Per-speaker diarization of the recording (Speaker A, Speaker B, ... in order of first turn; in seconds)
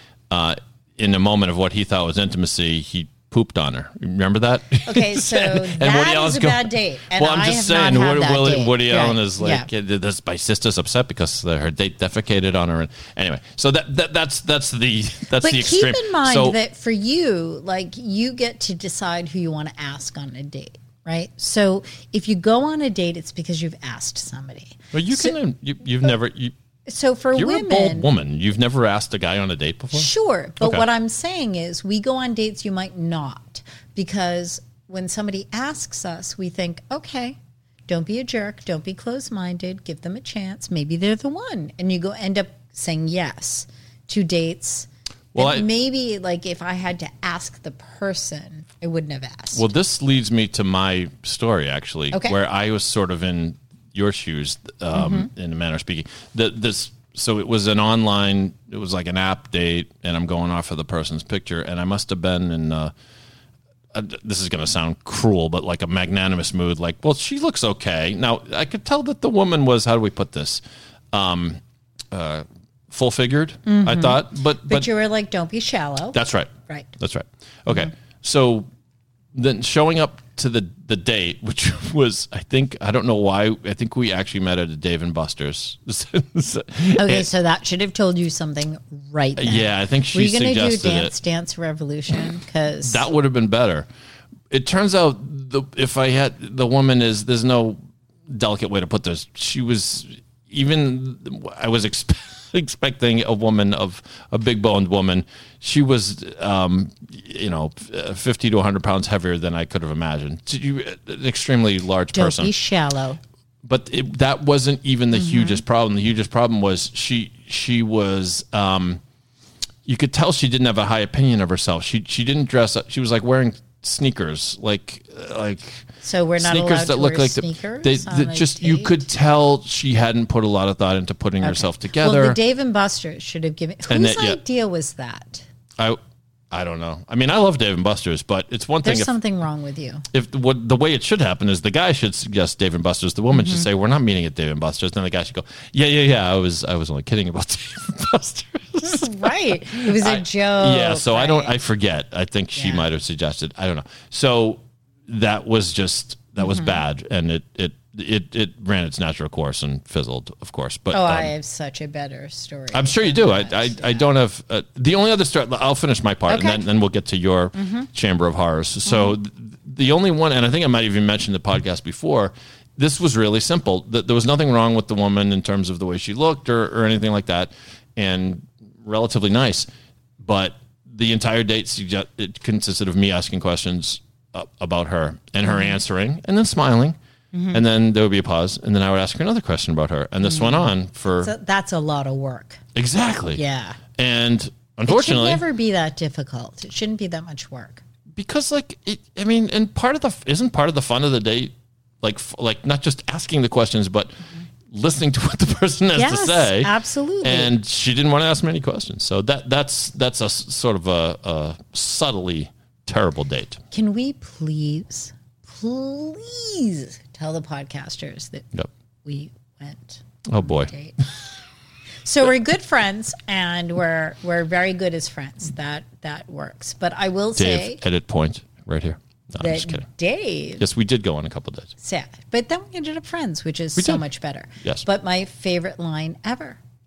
Speaker A: 0.3-16.6, 24.9-26.5, 27.3-30.1, 45.3-45.7, 49.5-62.9, 63.9-70.6, 71.1-71.6, 72.1-74.9, 76.1-78.7, 79.3-87.3, 89.4-91.1, 92.8-93.9, 94.5-112.5, 113.6-119.0, 119.8-125.9, 126.4-132.4, 133.9-134.4, 136.5-139.1, 140.1-161.3, 162.7-179.7, 180.2-186.9, 187.5-191.3, 192.7-193.4, 193.9-195.4, 198.2-204.2, 204.7-213.6, 220.3-220.7, 227.3-229.8, 230.6-231.7, 233.8-234.0
Speaker B: 4.8-9.7, 15.4-25.4, 26.9-28.1, 29.9-49.6, 52.1-52.4, 54.9-55.3, 73.7-76.9, 87.0-93.0, 112.1-113.2, 115.1-115.6, 126.0-129.1, 131.4-135.4, 138.8-140.0, 143.3-143.7, 148.8-151.5, 152.6-152.8, 156.4-156.8, 160.9-164.1, 166.3-166.6, 167.5-167.9, 168.8-169.2, 185.4-185.8, 187.3-187.6, 190.2-192.6, 193.3-193.8, 194.8-197.8, 205.9-207.5, 213.7-218.5, 219.0-221.0, 222.0-227.8, 229.4-230.6, 231.8-236.6